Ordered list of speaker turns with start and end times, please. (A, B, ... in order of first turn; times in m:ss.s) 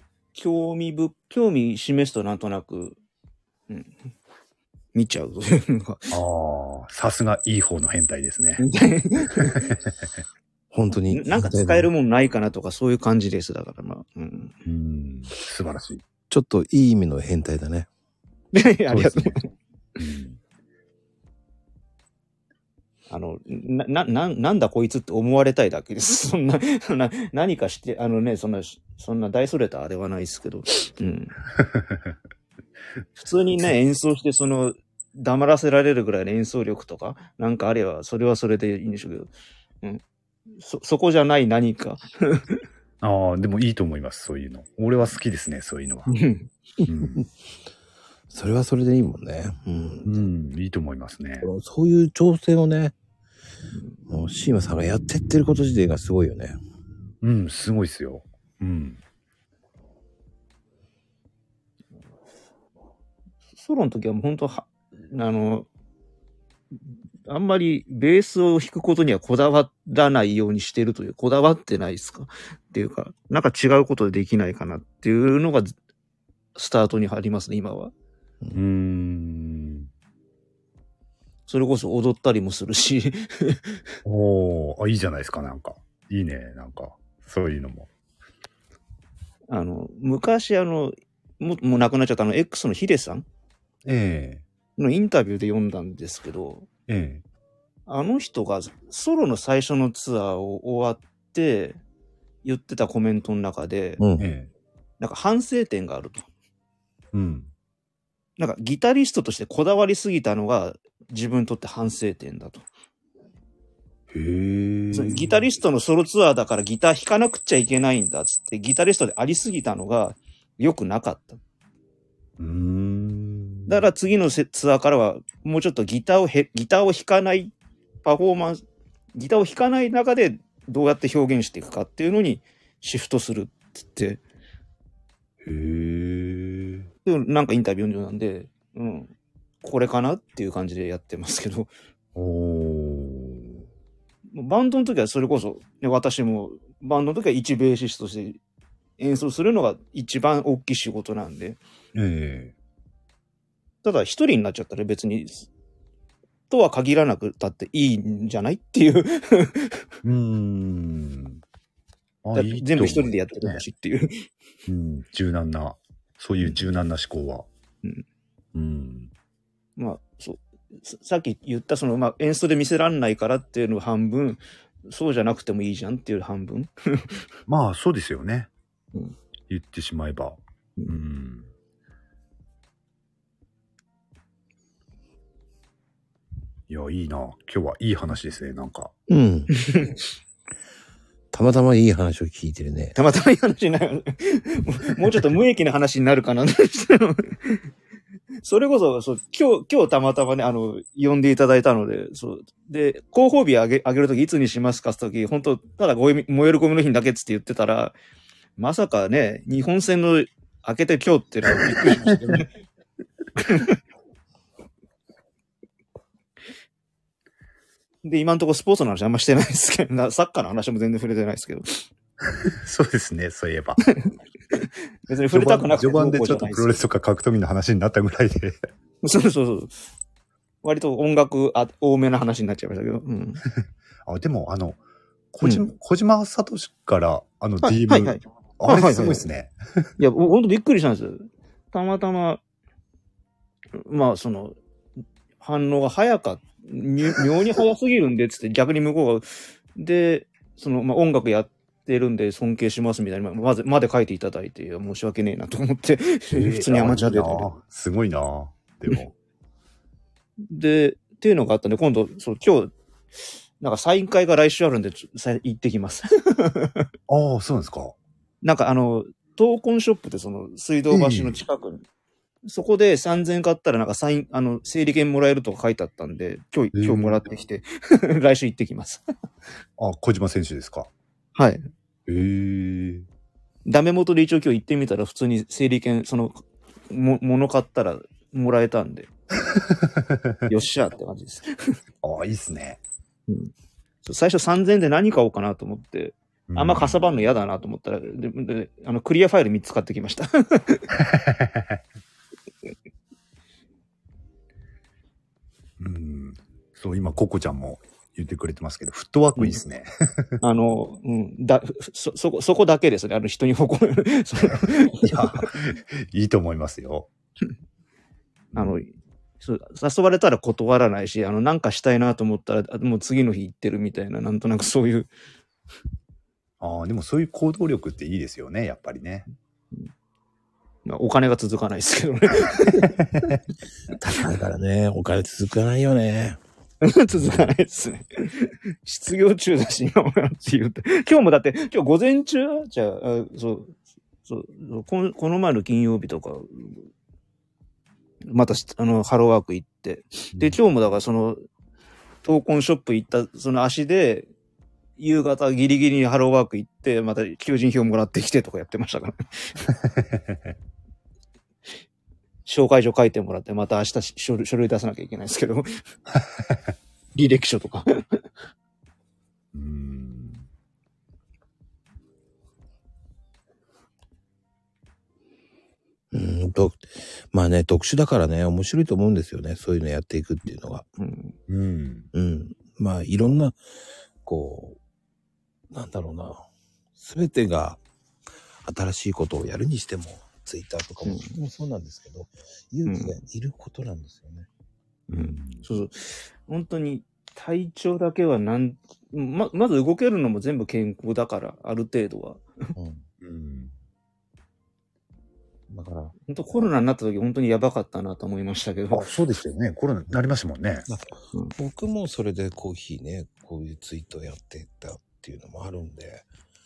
0:00.3-0:03.0 A
0:03.7-0:03.9 A
0:04.9-0:06.1 A
0:06.1-0:08.6 B
0:08.6-0:09.7 A
0:10.7-0:11.9 C
0:11.1-0:14.6 A
0:14.6-0:16.0 B
0:16.3-0:17.9 C
0:18.5-0:19.5 A
0:18.9-0:19.4 B
0:20.0-0:20.4 B
0:23.1-0:31.4 A
0:31.6-0:32.2 B
0:33.2-0:39.3 A
0:40.6-0:42.6 A
0:43.0-0:46.2 B
0:46.1-0:46.5 A
0:46.8-0:47.2 B
0:48.3-0:50.1 C
0:50.0-0:51.5 B
0:51.4-0:52.9 C
0:54.1-0:56.6 C
0:57.2-0:59.0 B
1:03.6-1:05.7 A
1:07.2-1:15.7 A
1:16.5-1:17.9 A
1:18.5-1:19.9 B
1:21.5-1:23.8 A
1:24.0-1:27.9 B
1:29.5-1:33.2 A
1:33.8-1:34.4 B
1:34.8-1:36.7 A
1:36.9-1:37.2 B
1:37.9-1:41.8 A
1:42.4-1:44.0 A
1:44.0-1:44.3 C
1:44.2-1:44.5 B
1:45.0-1:46.2 A
1:47.1-1:47.5 B
1:48.4-1:52.6 A
1:54.1-1:55.4 B
1:54.9-2:01.4 A
2:02.4-2:03.8 B
2:03.7-2:08.6 A
2:09.1-2:14.2 A
2:15.4-2:16.9 B
2:17.0-2:21.7 A
2:22.1-2:23.6 B
2:24.3-2:28.4 A
2:29.0-2:31.6 A
2:31.9-2:32.5 B
2:33.8-2:35.5 A
2:36.5-2:39.8 A
2:40.0-2:41.4 B
2:42.2-2:43.6 B
2:42.3-2:44.2 A
2:44.7-2:47.5 B
2:48.5-2:49.1 B
2:49.8-2:57.2 A
2:57.5-2:58.5 B
2:59.5-3:01.5 B
3:06.7-3:08.9 B
3:09.1-3:09.5 C
3:09.5-3:10.0 A
3:11.3-3:13.0 C
3:12.9-3:17.6 A
3:18.4-3:28.0 A
3:28.6-3:32.5 A
3:33.4-3:33.8 A
3:38.0-3:41.9 A
3:42.3-3:43.8 B
3:44.0-3:46.8 A
3:45.3-3:48.6 B
3:49.0-3:49.7 A
3:50.6-3:53.4 A
3:54.0-3:54.8 B
3:55.3-3:59.9 B
3:57.6-3:59.2 A
4:00.0-4:02.4 A
4:03.8-4:04.6 A
4:05.4-4:17.5 A
4:16.3-4:19.1 B
4:20.5-4:22.7 A
4:23.6-4:26.8 A
4:27.1-4:28.0 B
4:28.4-4:31.8 A
4:30.9-4:31.4 B
4:32.4-4:39.0 A
4:36.7-4:37.2 B
4:39.8-4:40.9 B
4:41.4-4:41.6 A
4:42.1-4:43.0 B
4:43.6-4:49.1 A
4:49.5-4:50.5 B
4:50.5-4:51.7 A
4:52.0-4:52.8 B
4:54.0-5:00.9 A
4:56.5-4:57.0 B
5:01.0-5:01.8 B
5:05.8-5:10.4 B
5:10.4-5:15.7 A
5:15.0-5:17.1 B
5:18.5-5:25.1 A
5:26.6-5:29.3 B
5:30.8-5:33.3 A
5:32.8-5:33.3 B
5:33.9-5:36.4 C
5:36.8-5:43.7 A
5:44.2-5:46.8 A
5:48.3-5:51.4 A
5:52.2-5:54.3 A
5:55.0-5:59.5 A
6:00.0-6:00.5 B
6:02.4-6:05.7 A
6:07.1-6:08.2 A
6:09.5-6:10.4 B
6:16.1-6:20.9 C
6:21.0-6:21.4 A
6:21.5-6:22.1 B
6:22.1-6:23.6 C
6:24.2-6:24.8 C
6:25.7-6:27.8 C
6:28.6-6:34.5 C
6:31.0-6:31.3 A
6:32.8-6:33.1 A
6:35.1-6:35.6 B
6:35.1-6:42.4 A
6:42.8-6:43.0 C
6:43.2-6:43.7 B
6:45.7-6:46.1 C
6:46.2-6:49.1 A
6:48.9-6:50.9 B
6:50.9-6:56.2 C